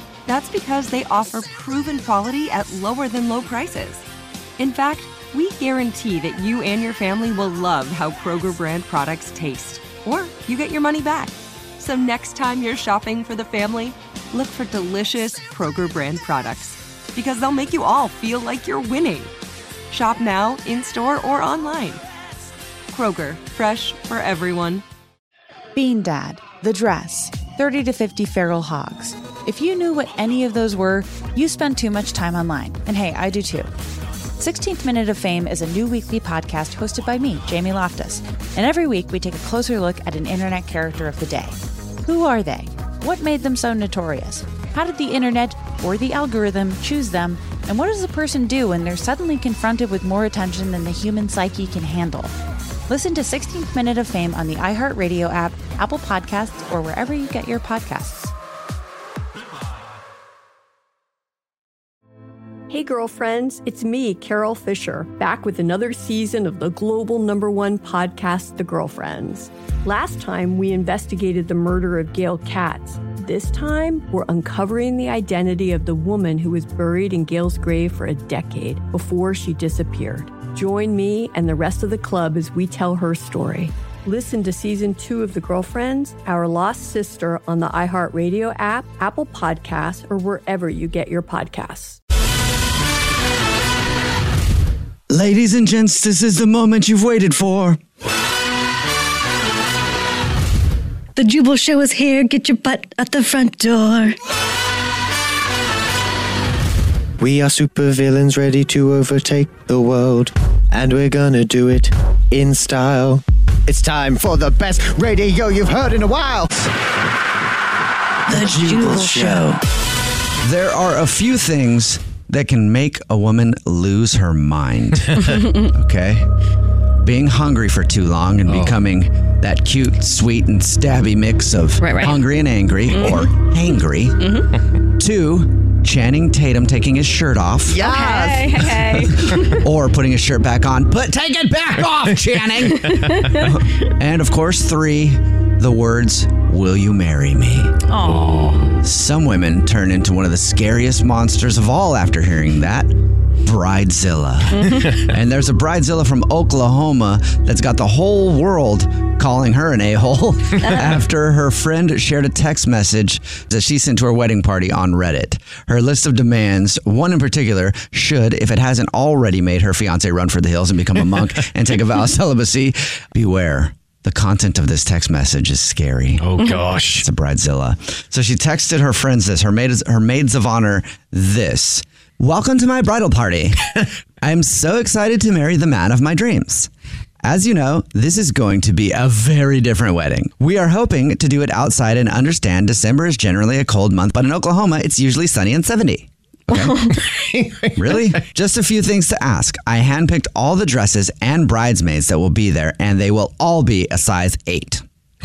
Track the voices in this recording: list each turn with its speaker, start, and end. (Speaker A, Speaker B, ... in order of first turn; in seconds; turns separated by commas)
Speaker A: 0.3-4.1, Speaker A: 4.6-19.3, Speaker A: 19.9-22.0, Speaker A: 22.9-24.8, Speaker B: 25.8-33.7, Speaker B: 34.4-52.3, Speaker B: 52.9-58.3, Speaker C: 62.7-92.0, Speaker D: 95.1-97.8, Speaker E: 101.2-104.2, Speaker F: 107.2-116.7, Speaker D: 118.3-119.6, Speaker F: 118.4-119.4, Speaker B: 118.6-119.4, Speaker D: 120.4-126.3, Speaker D: 127.0-134.3, Speaker F: 128.5-128.8, Speaker G: 131.8-132.2, Speaker G: 132.9-133.3, Speaker G: 134.2-134.5, Speaker D: 135.0-137.8, Speaker F: 137.7-138.6, Speaker G: 137.8-139.6, Speaker D: 138.8-147.8, Speaker G: 142.8-143.5, Speaker G: 147.9-148.5, Speaker F: 148.1-148.7, Speaker D: 148.8-176.4, Speaker G: 154.6-154.9, Speaker F: 176.2-177.1, Speaker D: 176.9-183.7, Speaker D: 184.2-186.7, Speaker D: 187.2-196.7, Speaker F: 196.5-198.2, Speaker D: 197.8-204.8